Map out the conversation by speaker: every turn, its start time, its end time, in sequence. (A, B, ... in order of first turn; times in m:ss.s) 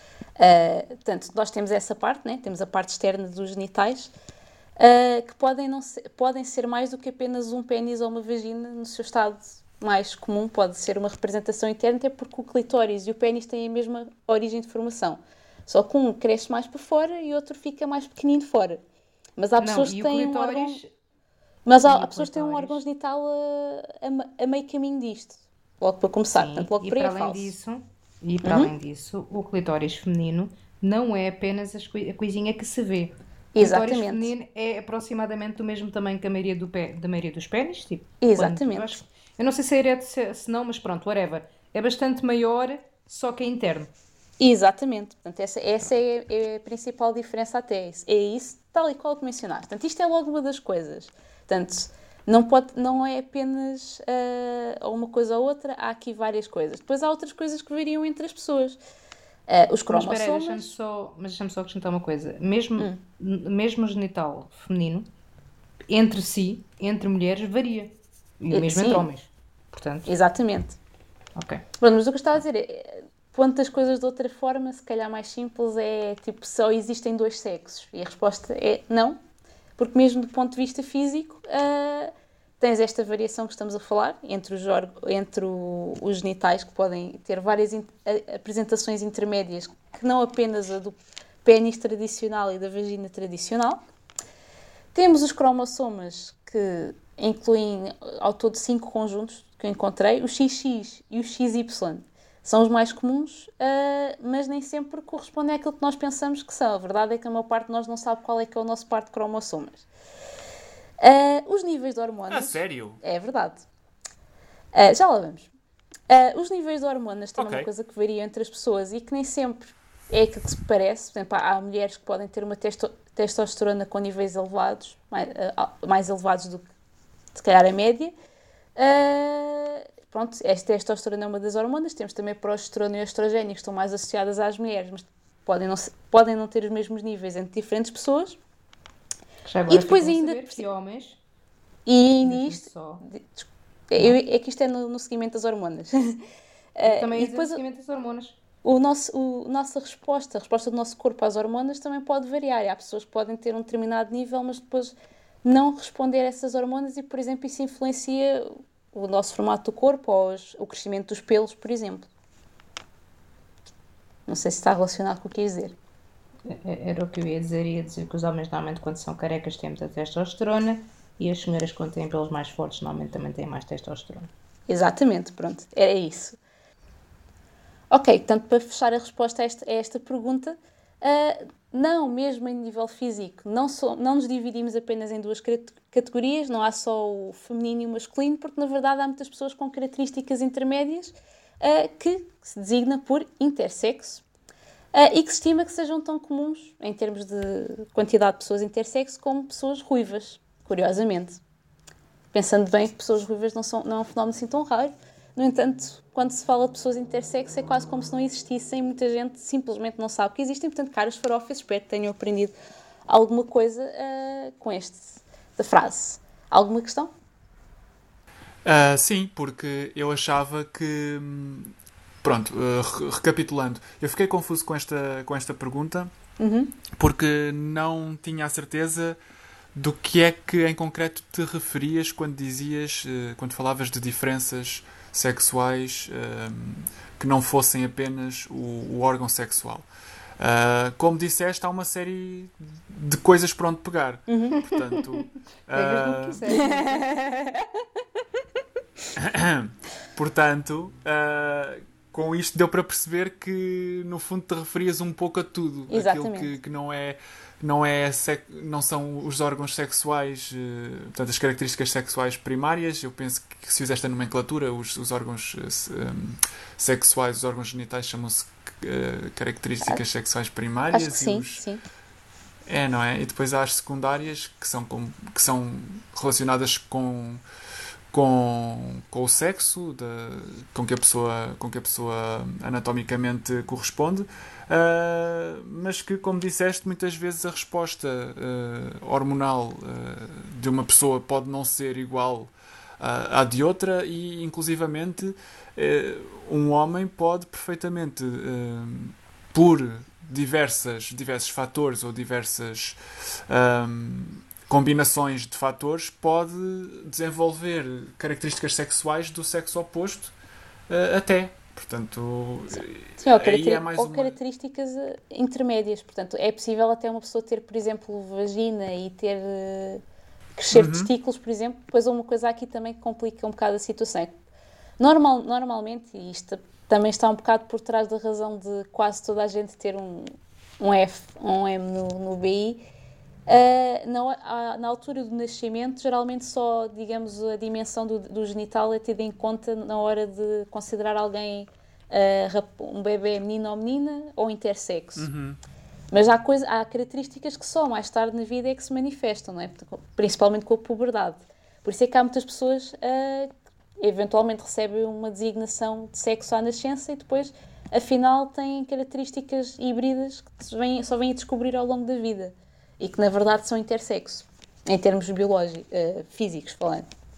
0:00.4-0:04.1 A
0:04.8-0:18.8 A
0:19.4-0:20.8 A
0:19.6-0:20.9 B
0:21.6-0:27.5 A
0:21.8-0:22.8 B
0:26.3-0:43.9 B
0:28.4-0:28.7 A
0:33.6-0:34.3 A
0:38.2-0:39.0 A
0:44.4-0:58.8 A
0:59.5-1:00.7 A
0:59.9-1:05.1 B
1:05.9-1:10.1 B
1:08.5-1:09.1 A
1:10.0-1:10.8 A
1:11.4-1:11.6 B
1:11.8-1:19.2 A
1:19.8-1:33.8 A
1:34.9-1:49.8 A
1:51.0-1:53.6 A
1:52.3-1:53.0 C
1:54.7-1:55.5 A
1:56.1-2:06.7 A
1:57.4-1:57.7 C
2:07.3-2:08.1 A
2:08.7-2:18.4 A
2:19.4-2:21.2 B
2:19.7-2:20.6 A
2:21.8-2:26.2 A
2:22.2-2:23.0 B
2:26.8-2:27.6 A
2:26.8-2:28.4 B
2:28.6-2:42.1 A
2:44.3-2:45.8 A
2:46.4-2:54.3 B
2:54.7-2:56.4 A
2:57.9-3:14.2 A
3:14.9-3:21.4 A
3:22.3-3:32.5 A
3:33.1-3:37.1 A
3:38.6-3:46.1 C
3:46.4-3:46.8 A
3:46.9-3:49.2 C
3:49.7-3:59.9 C
4:00.4-4:06.4 C
4:04.3-4:04.7 A
4:05.7-4:07.1 B
4:06.5-4:07.7 A
4:09.2-4:31.6 C
4:15.9-4:16.5 A
4:30.9-4:31.8 A
4:32.7-4:37.4 C
4:38.1-5:10.3 C
5:10.9-5:14.4 C
5:13.2-5:20.0 A
5:20.6-5:24.3 A
5:20.7-5:21.1 C
5:25.0-5:32.8 A
5:33.4-5:45.3 A
5:45.2-5:45.6 C
5:46.1-6:07.1 A